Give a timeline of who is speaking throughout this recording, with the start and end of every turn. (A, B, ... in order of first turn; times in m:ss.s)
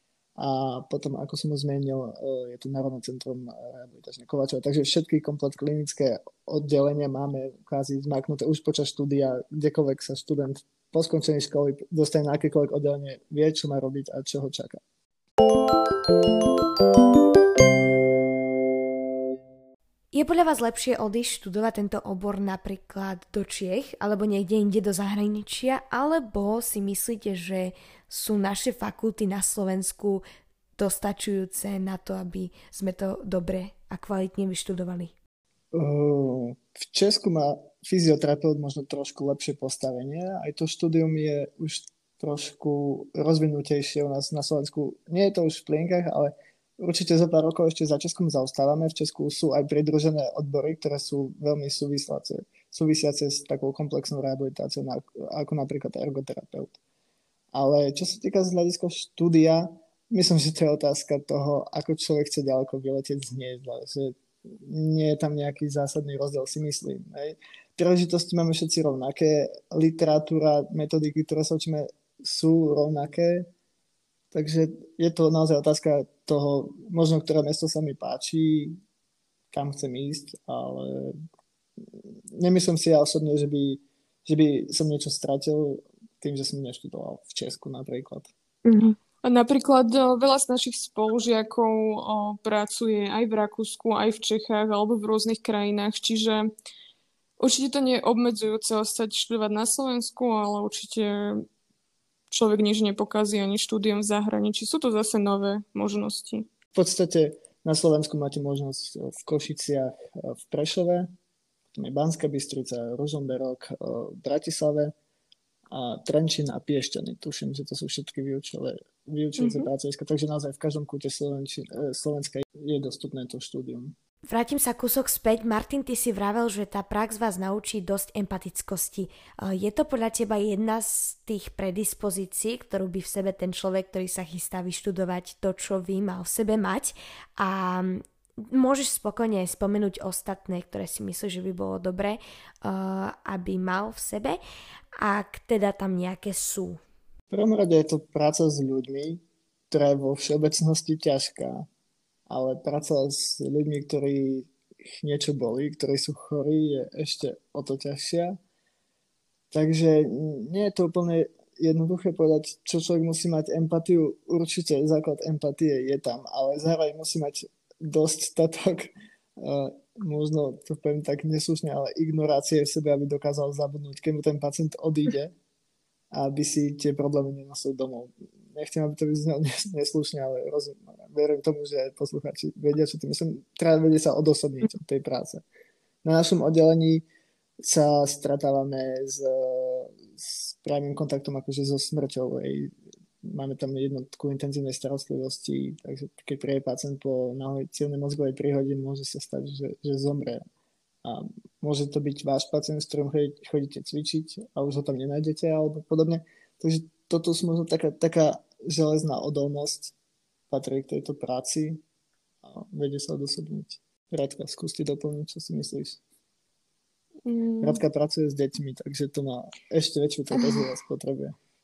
0:00.4-0:14.8 A
0:20.1-0:30.2 B
0:30.8-0:35.1 B
0:35.7-0:56.8 A
0:57.5-1:13.5 A
1:14.3-1:18.8 A
1:19.5-1:21.1 A
1:21.9-1:28.3 A
1:28.6-1:29.0 B
1:29.2-1:36.5 C
1:37.4-1:41.4 C
1:42.3-1:46.4 C
1:46.7-1:51.1 A
1:51.7-1:54.9 A
1:55.7-2:03.9 A
1:59.4-1:59.7 C
2:04.2-2:24.4 B
2:25.0-2:26.8 B
2:27.3-2:31.6 A
2:32.3-2:38.4 A
2:39.5-2:55.3 A
2:56.1-3:05.4 A
3:06.0-3:07.0 A
3:07.6-3:20.4 A
3:21.0-3:29.9 A
3:30.5-3:31.8 A
3:32.4-3:36.0 A
3:37.2-3:37.8 C
3:37.6-3:41.3 A